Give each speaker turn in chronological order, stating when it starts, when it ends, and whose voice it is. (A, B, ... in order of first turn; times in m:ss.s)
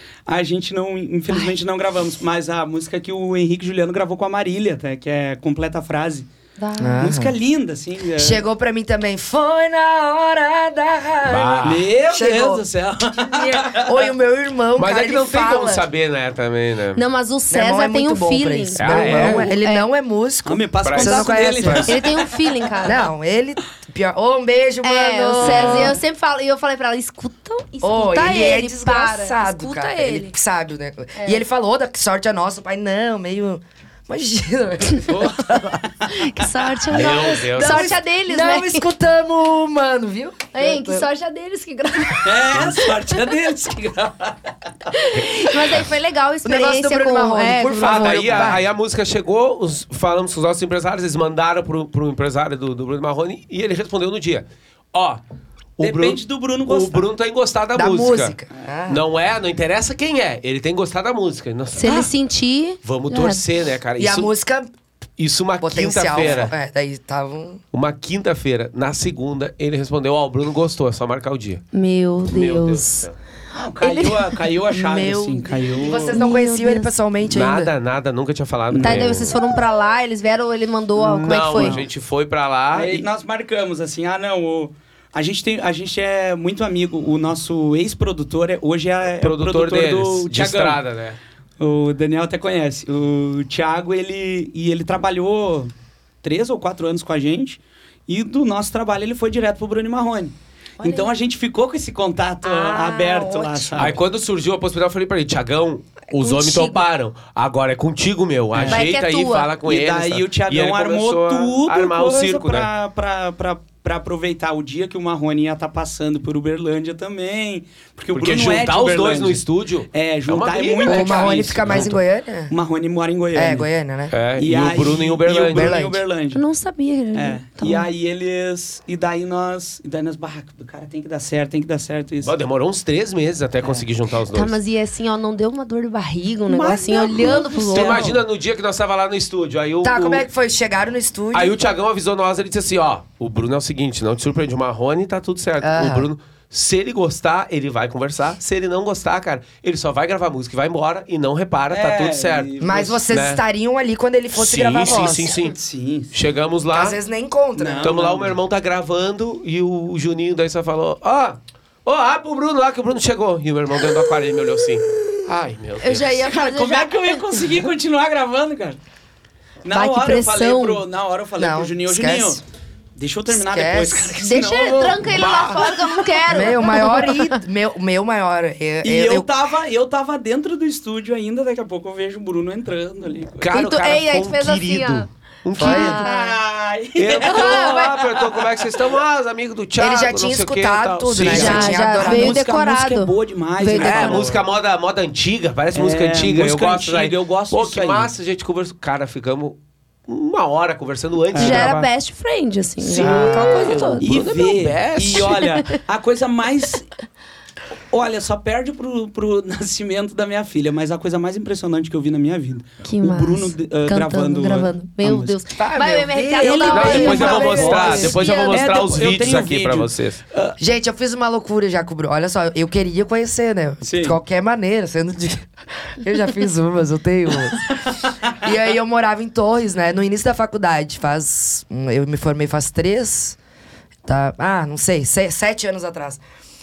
0:00.3-0:06.3 A
0:06.6-0:07.0 B
0:06.8-0:07.4 C
0:07.0-0:08.4 A
0:08.2-0:12.6 C
0:11.2-0:11.8 D
0:11.6-0:14.0 A
0:13.2-0:15.9 C
0:14.8-0:17.0 D
0:17.0-0:19.9 B
0:17.5-0:22.0 C
0:18.8-0:19.5 D
0:20.5-0:22.3 A
0:20.8-0:21.9 D
0:21.8-0:23.1 B
0:22.8-0:26.0 C
0:24.8-0:30.3 B
0:25.6-0:25.9 D
0:27.8-0:35.2 C
0:31.2-0:31.4 B
0:35.0-0:36.4 A
0:36.1-0:38.8 B
0:36.9-0:38.0 D
0:37.5-0:41.1 C
0:40.5-0:43.3 B
0:42.2-0:44.9 A
0:44.9-0:48.5 B
0:45.2-0:45.9 D
0:46.4-0:48.6 C
0:47.8-0:55.2 D
0:55.8-0:58.4 D
0:55.8-0:57.1 A
0:57.8-0:59.0 C
0:58.9-1:02.1 D
1:01.8-1:03.4 B
1:02.8-1:04.3 D
1:04.0-1:04.7 C
1:05.2-1:06.5 D
1:05.6-1:07.6 C
1:07.7-1:11.6 D
1:11.7-1:13.1 B
1:12.3-1:13.1 D
1:13.5-1:16.2 A
1:13.8-1:15.5 B
1:14.9-1:17.7 C
1:16.1-1:16.9 B
1:17.3-1:19.4 D
1:18.7-1:19.1 A
1:18.8-1:21.8 B
1:21.0-1:23.0 D
1:22.7-1:30.8 A
1:29.2-1:31.2 D
1:31.6-1:44.0 A
1:40.8-1:41.1 B
1:42.4-1:44.0 B
1:43.8-1:52.7 D
1:46.1-1:46.8 B
1:48.5-1:48.8 A
1:48.6-1:49.5 B
1:49.6-2:02.0 A
1:58.1-2:01.9 D
2:00.8-2:02.5 C
2:02.5-2:03.7 A
2:03.3-2:04.1 C
2:04.1-2:05.8 D
2:04.4-2:06.4 A
2:05.5-2:06.0 C
2:06.3-2:07.9 B
2:07.1-2:12.3 A
2:12.2-2:14.6 D
2:13.6-2:13.9 A
2:14.3-2:18.1 B
2:16.5-2:18.2 A
2:17.7-2:20.3 D
2:19.8-2:21.6 C
2:21.3-2:32.5 D
2:25.6-2:26.1 C
2:31.7-2:33.0 A
2:32.6-2:35.4 C
2:33.1-2:33.4 D
2:34.4-2:35.6 D
2:35.4-2:36.1 A
2:36.1-2:37.0 D
2:36.7-2:38.0 C
2:37.6-2:38.4 A
2:37.8-2:46.1 D
2:45.8-2:47.4 B
2:46.3-2:48.8 A
2:49.6-2:52.4 A
2:49.7-2:50.8 B
2:51.4-2:52.4 C
2:53.0-2:55.9 A
2:53.3-2:54.1 C
2:54.2-2:57.4 B
2:55.1-2:55.6 D
2:56.3-2:59.3 C
2:58.8-3:03.5 A
3:03.4-3:06.0 D
3:03.5-3:06.4 B
3:05.6-3:06.0 C
3:05.8-3:08.6 A
3:07.0-3:11.8 D
3:07.2-3:07.9 B
3:09.8-3:12.4 C
3:11.2-3:14.3 B
3:11.3-3:14.4 A
3:13.8-3:21.8 D
3:15.7-3:18.1 A
3:21.3-3:21.9 A
3:21.4-3:24.2 B
3:22.8-3:25.4 D
3:23.0-3:23.6 C
3:24.0-3:26.9 A
3:25.2-3:25.7 B
3:27.9-3:35.4 A
3:32.8-3:38.8 B
3:35.6-3:38.2 C
3:36.4-3:40.6 A
3:36.7-3:40.2 D
3:40.6-3:45.5 C
3:43.8-3:44.2 A
3:46.0-3:47.8 C
3:47.7-3:48.3 A
3:48.4-3:53.4 C
3:54.1-3:56.2 C